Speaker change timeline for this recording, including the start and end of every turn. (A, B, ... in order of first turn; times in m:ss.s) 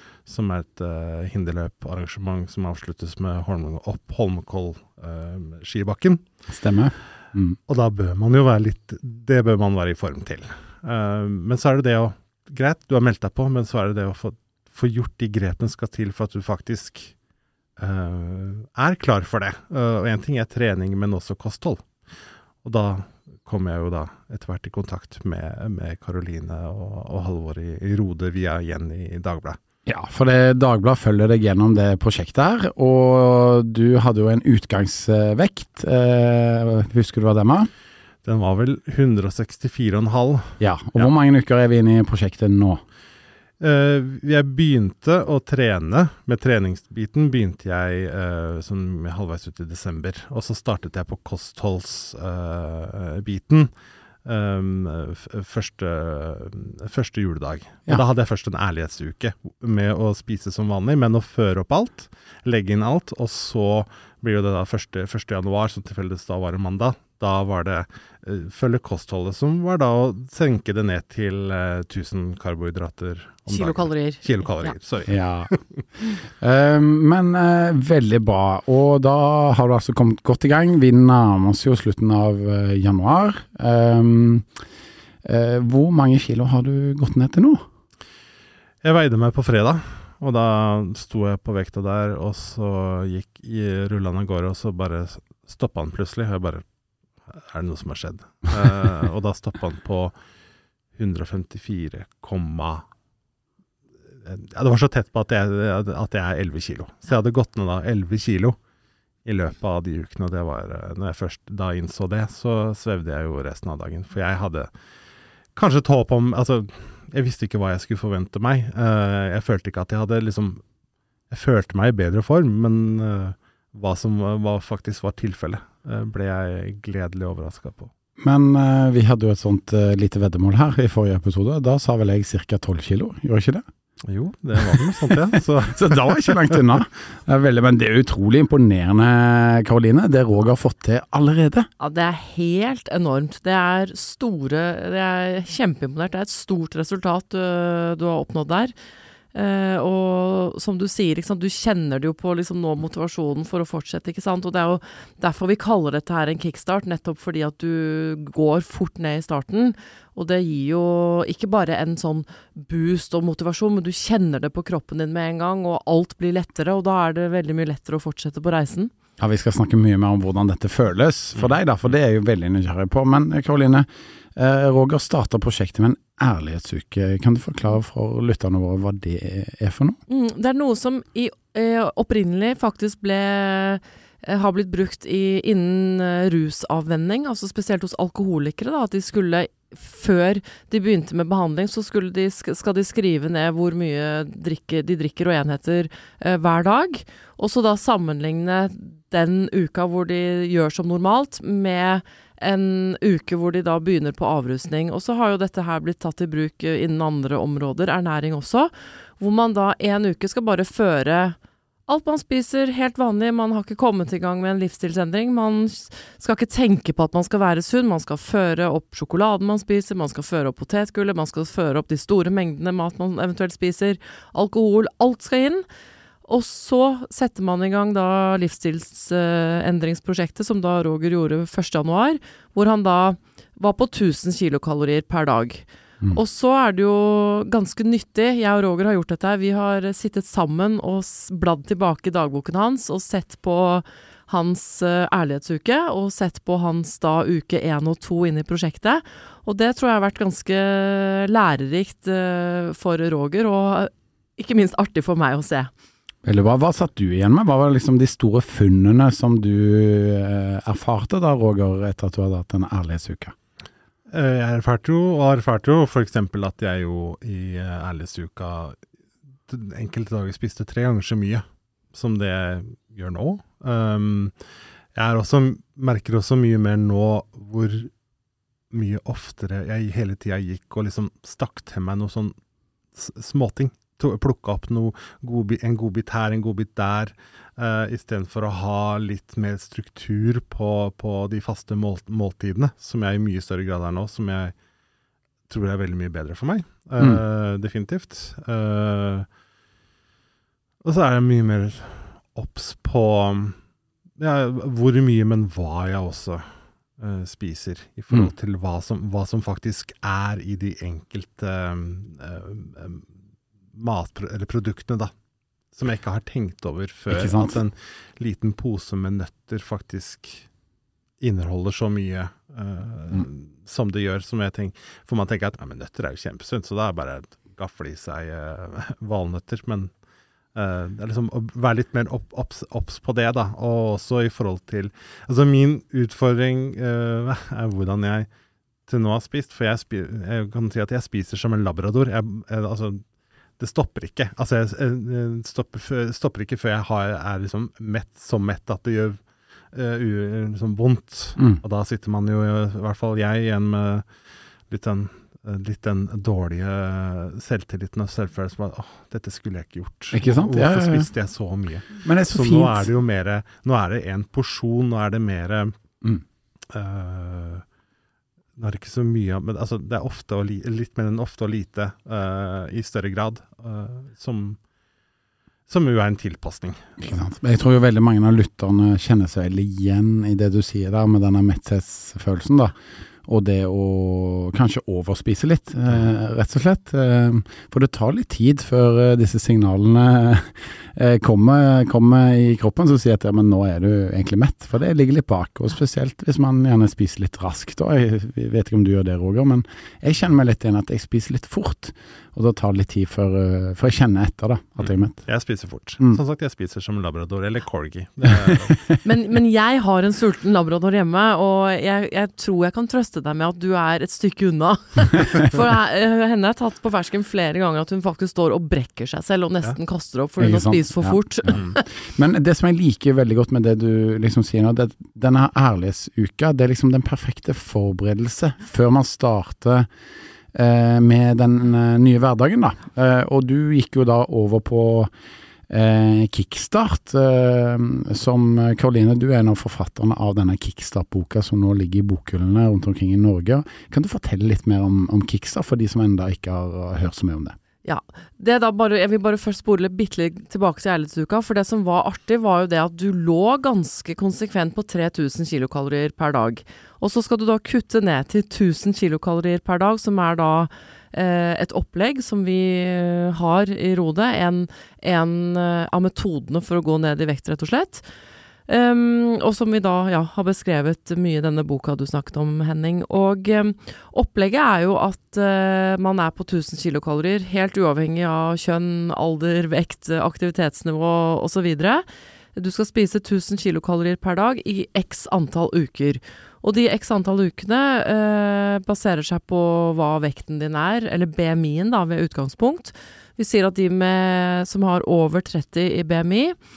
0:00.2-0:06.2 A
0:06.5-0:07.6 B
0:07.7-0:17.1 A
0:17.8-0:21.9 A
0:22.6-0:29.6 A
0:29.8-0:37.7 B
0:38.2-0:41.1 A
0:40.6-0:42.8 B
0:43.6-0:53.7 A
0:54.2-1:15.8 A
1:13.5-1:14.7 C
1:15.1-1:15.5 B
1:16.4-1:24.5 B
1:25.2-1:27.6 B
1:28.8-1:36.6 A
1:37.3-1:40.1 A
1:40.9-1:42.8 A
1:44.2-1:48.6 A
1:49.2-1:54.7 A
1:55.6-2:00.6 A
2:01.3-2:07.9 A
2:08.2-2:13.6 B
2:14.1-2:16.6 A
2:14.6-2:21.7 B
2:21.8-2:28.7 C
2:29.3-2:48.9 C
2:49.2-3:00.0 B
3:00.1-3:31.4 C
3:31.9-3:45.6 C
3:46.2-4:15.7 C
4:16.2-4:23.3 B
4:24.1-4:28.8 A
4:29.5-4:34.3 A
4:34.9-4:37.9 A
4:38.7-4:42.3 A
4:42.9-4:54.5 A
4:55.5-4:59.3 A
5:00.8-5:03.6 A
5:04.2-5:13.1 A
5:13.7-5:15.1 A
5:15.7-5:20.4 A
5:17.1-5:17.6 B
5:21.2-5:29.9 A
5:30.5-5:38.3 A
5:38.9-5:43.0 A
5:43.6-5:49.2 A
5:49.7-5:54.1 A
5:51.4-5:51.6 B
5:54.7-6:05.7 A
6:00.1-6:01.1 B
6:02.0-6:02.9 B
6:06.7-6:07.6 A
6:08.6-6:14.6 A
6:15.7-6:17.0 A
6:17.0-6:22.7 B
6:23.2-6:45.2 B
6:44.8-6:49.0 A
6:48.3-6:48.6 B
6:49.0-7:01.8 C
7:00.4-7:09.9 B
7:10.5-7:15.1 B
7:15.7-7:27.6 B
7:27.8-7:48.0 C
7:48.7-8:16.6 C